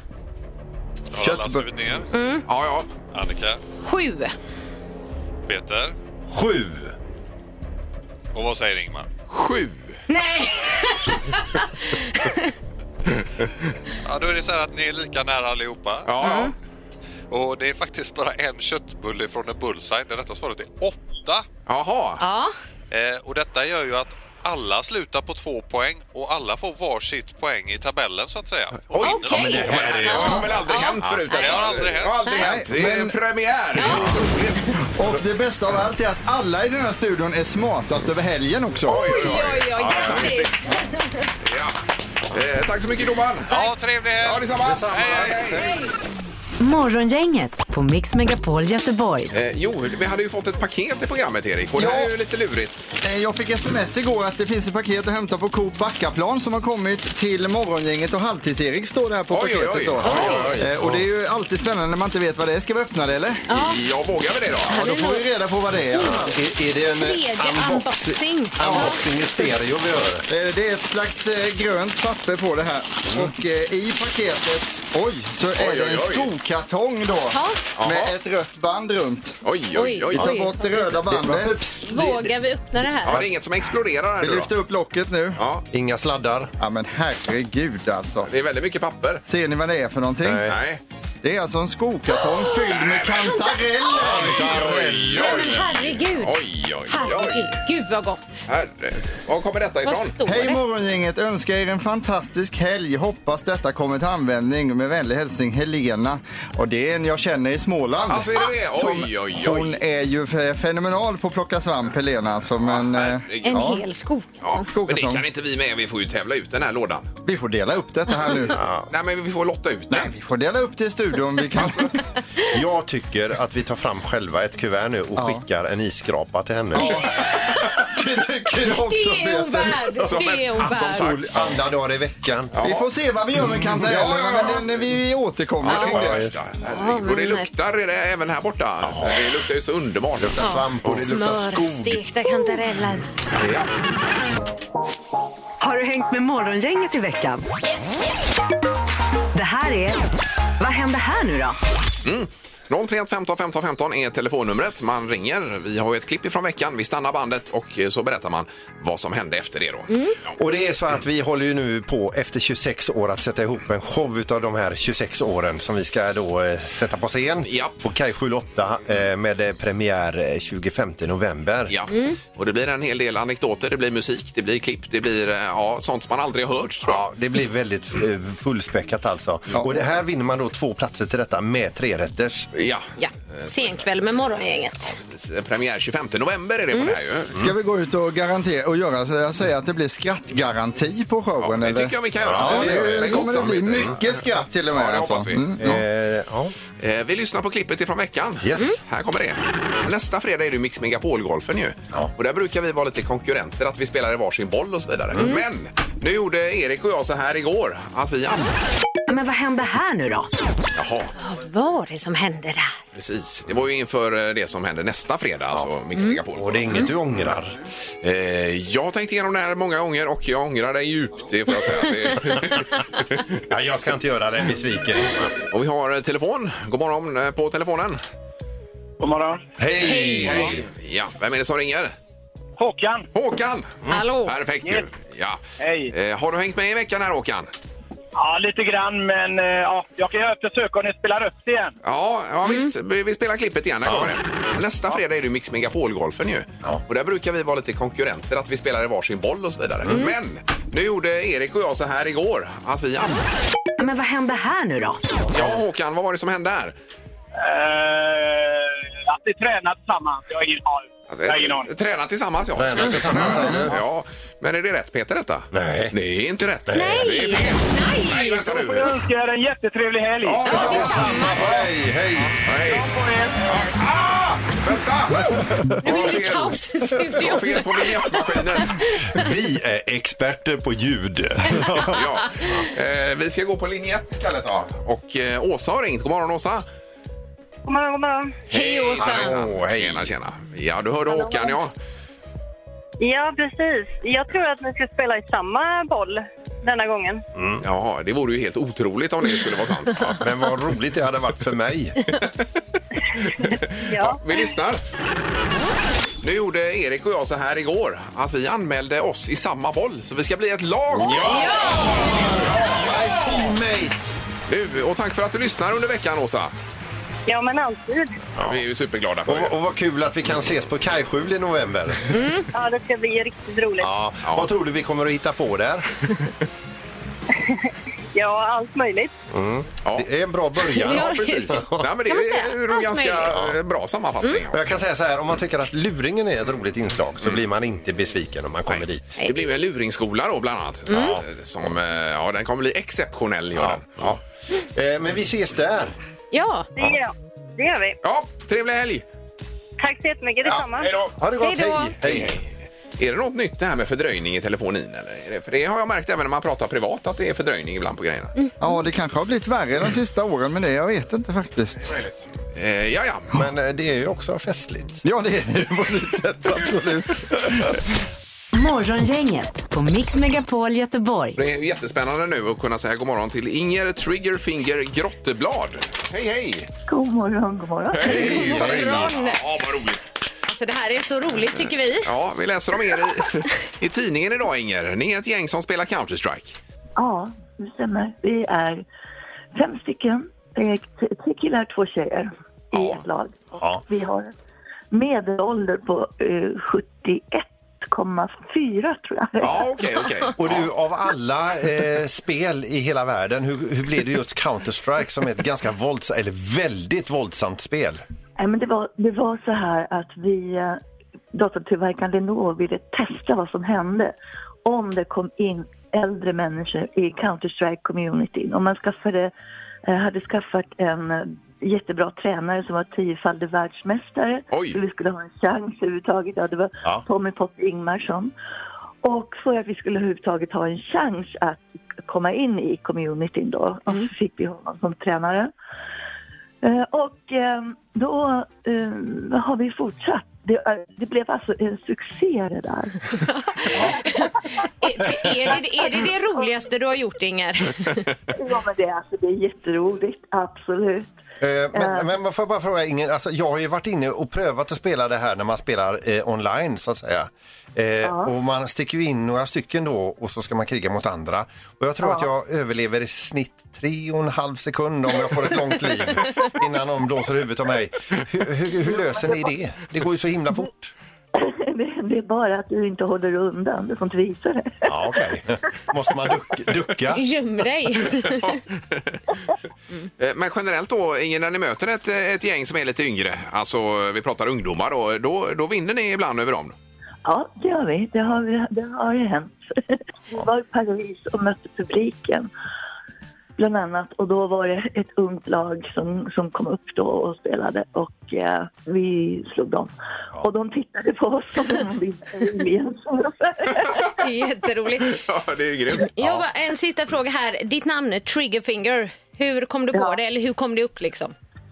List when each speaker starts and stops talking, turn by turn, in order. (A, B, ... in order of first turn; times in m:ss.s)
0:01.1-0:02.1 A
0:01.2-0:01.7 B
0:02.1-0:02.4 C
0:02.5-0:02.9 D
0:03.1-0:03.6 A
0:03.8-0:04.3 C
0:05.4-0:06.0 A
0:06.3-0:06.9 E
0:08.3-0:09.1 A
0:09.3-0:10.0 D
0:10.1-0:12.5 C
0:14.0-0:16.5 A
0:16.0-0:16.5 D
0:16.2-0:16.5 C
0:17.3-0:21.4 A
0:21.7-0:22.2 D
0:22.2-0:22.5 C
0:22.9-0:32.6 A
0:28.9-0:34.7 D
0:29.0-0:32.5 C
0:32.4-0:33.2 B
0:33.7-0:34.2 C
0:33.8-0:34.3 B
0:34.8-0:39.4 B
0:38.8-0:40.7 D
0:38.9-0:41.3 C
0:41.4-0:41.8 D
0:42.3-0:43.6 D
0:43.5-0:45.7 A
0:44.2-0:45.6 D
0:44.6-0:45.4 E
0:45.6-0:45.9 C
0:46.6-0:49.3 F
0:49.3-0:52.8 D
0:51.8-0:52.1 B
0:53.0-1:03.4 B
0:59.3-1:00.6 D
1:00.0-1:00.6 C
1:00.1-1:01.0 E
1:03.5-1:03.8 C
1:03.5-1:04.8 D
1:04.7-1:05.2 C
1:04.7-1:06.3 B
1:05.9-1:10.3 E
1:06.0-1:06.2 C
1:06.9-1:09.0 C
1:08.6-1:08.9 B
1:10.3-1:19.4 B
1:15.6-1:16.3 D
1:17.3-1:17.6 C
1:17.8-1:18.1 D
1:19.4-1:20.3 D
1:19.7-1:20.6 C
1:20.1-1:21.6 B
1:20.8-1:22.3 E
1:21.8-1:23.2 C
1:23.0-1:23.3 E
1:23.0-1:24.5 D
1:24.2-1:25.4 B
1:25.4-1:25.6 D
1:25.7-1:26.5 E
1:26.6-1:28.3 B
1:28.3-1:29.2 D
1:29.3-1:30.5 B
1:30.2-1:30.6 E
1:30.4-1:30.8 D
1:31.2-1:34.6 B
1:32.7-1:33.3 D
1:33.9-1:35.7 E
1:34.0-1:37.6 D
1:35.1-1:36.4 C
1:36.9-1:38.3 C
1:38.5-1:40.2 D
1:39.8-1:40.6 C
1:40.2-1:53.8 B
1:48.1-1:49.8 D
1:52.6-1:53.7 D
1:53.4-1:54.6 C
1:54.4-1:57.1 D
1:54.6-1:55.2 B
1:57.2-1:58.6 B
1:58.5-1:58.9 E
1:58.9-2:00.1 D
1:59.9-2:02.0 B
2:02.5-2:07.1 E
2:05.2-2:05.4 B
2:06.7-2:09.8 B
2:08.8-2:11.1 C
2:09.6-2:12.6 E
2:10.0-2:11.6 D
2:12.5-2:12.9 D
2:12.6-2:16.3 B
2:13.8-2:14.5 E
2:13.8-2:14.6 D
2:15.6-2:21.0 D
2:15.7-2:16.0 C
2:15.8-2:16.3 E
2:16.6-2:17.5 C
2:18.8-2:19.3 E
2:20.2-2:22.0 E
2:20.4-2:23.1 C
2:23.3-2:23.7 D
2:25.6-2:27.4 F
2:29.3-2:30.0 F
2:30.6-2:31.6 F
2:32.0-2:39.9 D
2:40.4-2:51.8 E
2:47.4-2:47.8 D
2:51.7-2:57.0 D
2:51.9-2:52.2 C
2:56.8-3:02.5 E
2:59.5-2:59.8 B
3:02.5-3:03.8 D
3:03.0-3:05.0 C
3:04.8-3:07.4 D
3:07.4-3:15.8 B
3:11.4-3:14.2 D
3:12.2-3:14.0 E
3:14.7-3:15.5 D
3:15.6-3:16.5 E
3:16.8-3:28.5 D
3:18.4-3:18.8 E
3:25.1-3:25.4 E
3:29.1-3:30.3 F
3:30.7-3:31.1 D
3:31.2-3:32.8 C
3:32.9-3:36.9 D
3:36.3-3:37.6 E
3:38.0-3:43.2 D
3:43.5-3:45.4 E
3:45.5-3:48.0 D
3:49.0-3:49.4 G
3:49.6-3:50.6 E
3:49.8-3:50.4 C
3:50.0-3:51.9 D
3:52.6-3:53.1 G
3:53.1-3:57.5 D
3:53.9-3:54.3 C
3:55.6-3:55.9 G
3:58.1-4:01.7 G
4:01.8-4:13.2 D
4:03.8-4:04.1 E
4:13.8-4:15.3 F
4:15.3-4:16.8 D
4:17.4-4:21.7 G
4:21.1-4:29.0 D
4:22.5-4:23.8 E
4:25.5-4:26.0 E
4:26.7-4:27.1 E
4:26.7-4:28.6 C
4:28.4-4:30.6 G
4:30.2-4:31.6 D
4:30.4-4:31.4 C
4:30.5-4:32.4 E
4:32.4-4:32.9 D
4:32.6-4:33.7 G
4:33.5-4:38.9 D
4:35.8-4:38.9 C
4:38.9-4:42.0 E
4:41.8-4:46.6 D
4:47.6-4:48.4 H
4:48.5-4:49.4 C
4:48.5-4:51.7 D
4:49.0-4:50.1 E
4:51.1-4:51.5 H
4:53.0-4:57.2 H
4:57.4-4:57.6 E
4:57.6-5:00.2 D
5:00.2-5:02.0 E
5:03.4-5:04.8 D
5:03.9-5:04.2 H
5:06.2-5:12.7 D
5:10.9-5:14.0 E
5:11.1-5:11.9 C
5:14.5-5:16.5 D
5:17.3-5:18.2 H
5:18.4-5:18.6 E
5:18.4-5:19.6 D
5:19.2-5:22.1 E
5:22.1-5:22.5 C
5:22.5-5:23.9 H
5:23.8-5:26.0 E
5:24.2-5:24.5 D
5:27.4-5:29.1 H
5:29.3-5:31.9 E
5:30.8-5:33.4 C
5:30.8-5:34.7 D
5:34.5-5:39.0 E
5:38.7-5:44.2 D
5:40.9-5:41.2 C
5:40.9-5:41.2 E
5:43.6-5:44.2 E
5:44.7-5:45.9 E
5:46.3-5:46.7 C
5:46.8-5:48.0 H
5:48.0-5:49.0 D
5:49.8-5:50.9 H
5:50.8-5:51.1 D
5:51.2-5:52.4 E
5:51.4-5:51.9 C
5:52.0-5:58.3 D
5:58.6-6:02.0 B
6:01.9-6:03.4 D
6:03.3-6:05.0 E
6:05.0-6:07.8 B
6:08.5-6:11.4 F
6:11.4-6:16.7 D
6:16.9-6:18.6 I
6:17.9-6:20.1 D
6:18.0-6:19.1 E
6:18.1-6:19.4 C
6:20.5-6:22.1 C
6:22.0-6:26.6 D
6:27.0-6:28.8 I
6:29.5-6:34.3 I
6:32.7-6:33.0 D
6:33.6-6:33.8 E
6:34.9-6:39.7 I
6:39.4-6:40.7 D
6:40.4-6:48.0 E
6:48.4-6:50.8 I
6:51.3-6:59.3 I
6:59.8-7:08.3 I
7:04.5-7:04.8 D
7:09.0-7:15.5 I
7:16.6-7:23.1 I
7:23.2-7:24.3 C
7:24.8-7:28.1 C
7:25.4-7:26.5 I
7:28.3-7:31.1 I
7:31.4-7:50.9 E
7:31.7-7:32.1 I
7:38.0-7:38.3 I
7:49.0-7:49.5 I
7:51.3-7:55.1 I
7:54.9-7:57.2 E
7:57.1-7:58.6 C
7:58.4-7:59.2 D
8:00.2-8:06.7 D
8:07.2-8:12.5 I
8:13.6-8:24.1 I
8:24.2-8:25.2 C
8:25.0-8:26.4 D
8:26.0-8:31.3 C
8:29.9-8:30.2 I